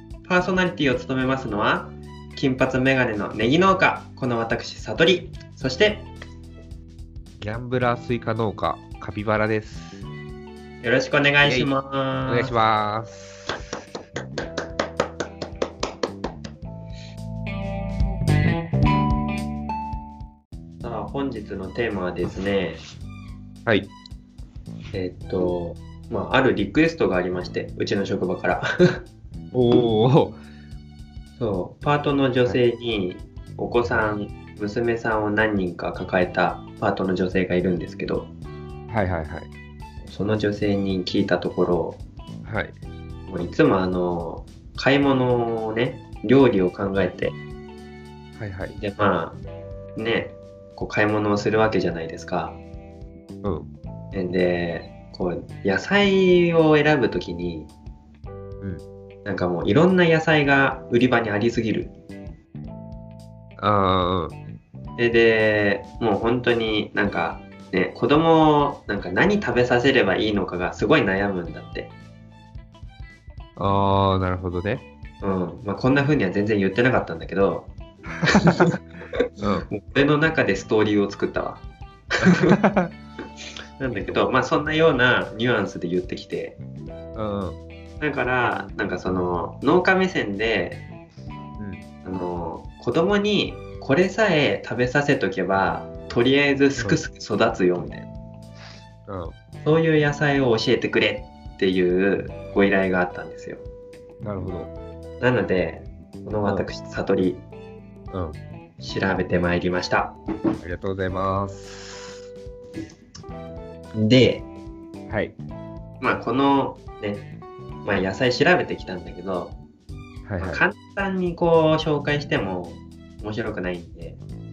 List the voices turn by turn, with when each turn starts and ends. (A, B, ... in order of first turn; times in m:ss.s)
0:00.2-0:06.1 A
0:07.4-0:10.0 B
0:10.8-0:12.5 A
0:11.4-0:11.7 B
0:12.3-0:13.6 B
0:20.8-0:22.8 A
0:24.9-0:29.0 A
0:29.5-0:30.4 B
0:31.4-0:38.3 A
0:38.9-0:39.5 B
0:40.0-0:42.0 A
0:42.4-0:42.8 B
0:43.3-0:47.4 A
0:48.4-0:48.8 B
0:48.7-0:49.4 A
0:50.0-0:52.6 A
0:53.4-0:53.7 B
0:54.1-0:57.7 A
0:59.2-1:01.9 A
1:03.6-1:04.4 B
1:05.0-1:11.9 A
1:13.6-1:14.8 B
1:15.2-1:17.7 A
1:18.3-1:18.8 A
1:19.4-1:19.7 B
1:19.7-1:21.6 A
1:22.2-1:22.6 A
1:22.2-1:22.9 B
1:23.8-1:26.6 A
1:27.1-1:27.6 B
1:28.0-1:30.8 A
1:31.6-1:31.8 B
1:32.0-1:38.1 A
1:39.1-1:39.4 B
1:39.6-1:43.6 A
1:44.2-1:44.7 B
1:45.2-1:47.4 A
1:48.1-1:48.4 B
1:48.8-1:50.2 A
1:50.6-1:52.2 B
1:53.9-1:54.5 A
1:55.1-1:55.3 B
1:56.0-1:57.3 A
1:57.8-1:59.6 A
2:00.2-2:00.6 B
2:00.4-2:04.2 A